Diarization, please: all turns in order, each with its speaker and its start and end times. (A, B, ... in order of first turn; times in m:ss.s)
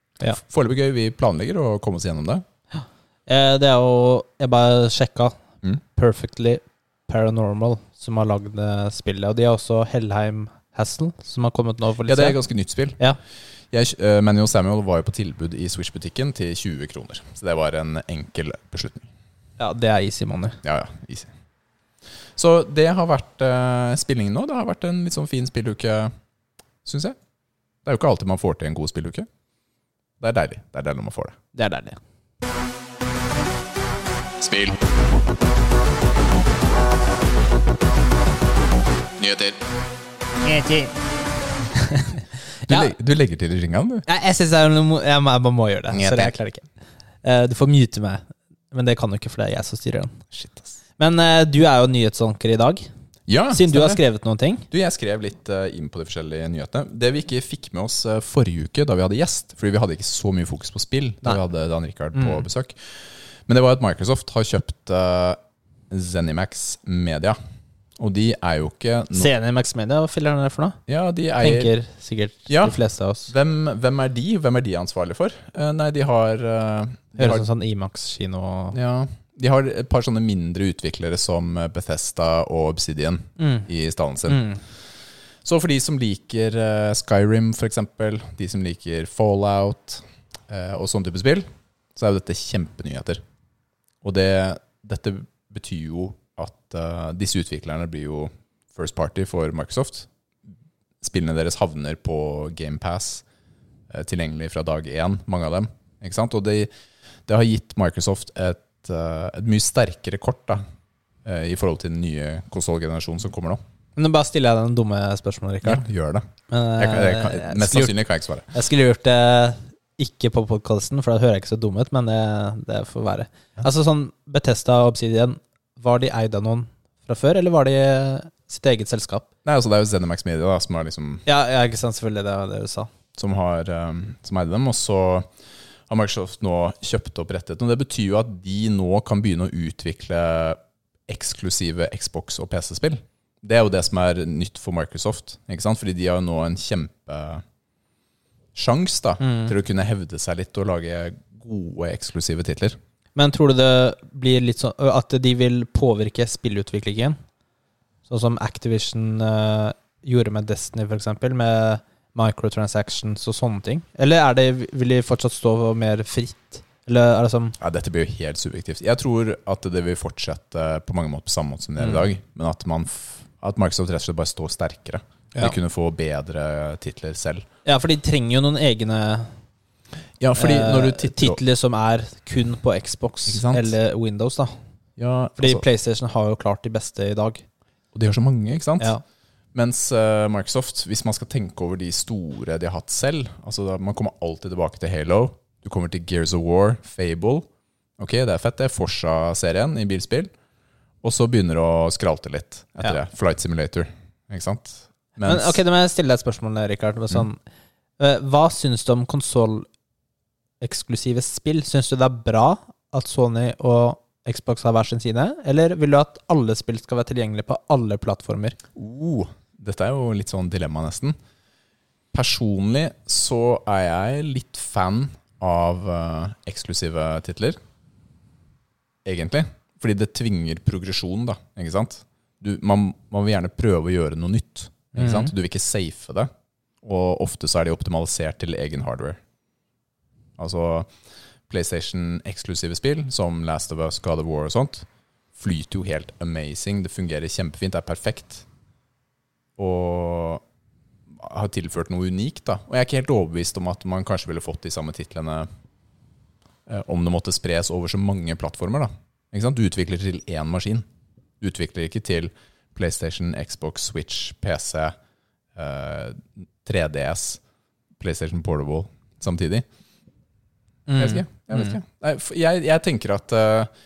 0:00.3-0:02.4 A
0:02.7-0:05.4 B
0:06.0-0:12.4 B
0:12.1-0:13.0 A
0:13.7-0:19.1 A
0:19.6-0:20.6 B
0:20.6-0:21.3 A
0:22.4-0:26.1 A
0:26.8-0:27.2 A
0:27.8-0:29.3 A
0:30.2-0:31.4 A
0:31.5-0:32.0 B
0:34.4-0:34.8 A
0:39.2-0:39.6 A
0:40.4-0:40.9 B
0:41.7-0:42.9 B
0:42.7-0:44.0 A
0:44.1-0:46.6 B
0:45.9-0:46.3 A
0:47.2-0:50.2 B
0:50.3-0:50.8 A
0:51.0-0:52.9 B
0:53.3-0:54.0 A
0:53.5-0:54.6 B
0:54.7-1:02.9 A
1:02.2-1:02.4 B
1:03.5-1:05.4 A
1:05.9-1:07.4 A
1:08.0-1:09.3 A
1:09.1-1:10.8 B
1:10.9-1:11.7 A
1:11.4-1:13.3 B
1:12.5-1:12.8 A
1:13.3-1:17.4 A
1:17.2-1:18.8 B
1:18.7-1:24.4 A
1:23.4-1:23.7 B
1:24.3-1:24.6 B
1:25.4-1:33.2 A
1:34.0-1:40.1 A
1:41.0-1:43.2 A
1:43.9-1:46.7 A
1:47.3-1:50.6 A
1:51.2-1:53.6 A
1:54.0-1:55.8 B
1:55.6-1:58.5 A
1:56.5-1:58.0 B
1:58.5-2:09.2 B
2:09.4-2:11.2 A
2:11.2-2:12.9 B
2:13.2-2:15.3 A
2:15.9-2:27.4 A
2:28.5-2:32.8 A
2:29.2-2:29.5 B
2:33.1-2:37.2 B
2:38.1-2:47.6 B
2:47.6-2:57.5 A
2:51.8-2:52.1 B
2:57.6-2:59.3 B
3:00.2-3:01.4 A
3:00.4-3:04.5 B
3:03.3-3:03.8 A
3:05.0-3:05.6 A
3:05.4-3:07.4 B
3:07.9-3:08.9 A
3:09.5-3:17.5 A
3:18.0-3:20.3 A
3:21.0-3:25.6 A
3:25.2-3:27.4 B
3:28.0-3:29.7 B
3:30.6-3:38.6 B
3:38.8-3:41.2 A
3:42.1-3:47.6 A
3:49.0-3:56.3 A
3:55.0-3:55.3 B
3:56.8-3:59.2 A
4:00.4-4:00.9 A
4:01.5-4:08.4 A
4:09.6-4:10.4 A
4:11.1-4:15.5 A
4:16.7-4:20.9 A
4:21.4-4:24.9 A
4:25.5-4:27.4 A
4:28.0-4:29.6 A
4:30.9-4:31.8 B
4:31.0-4:33.7 A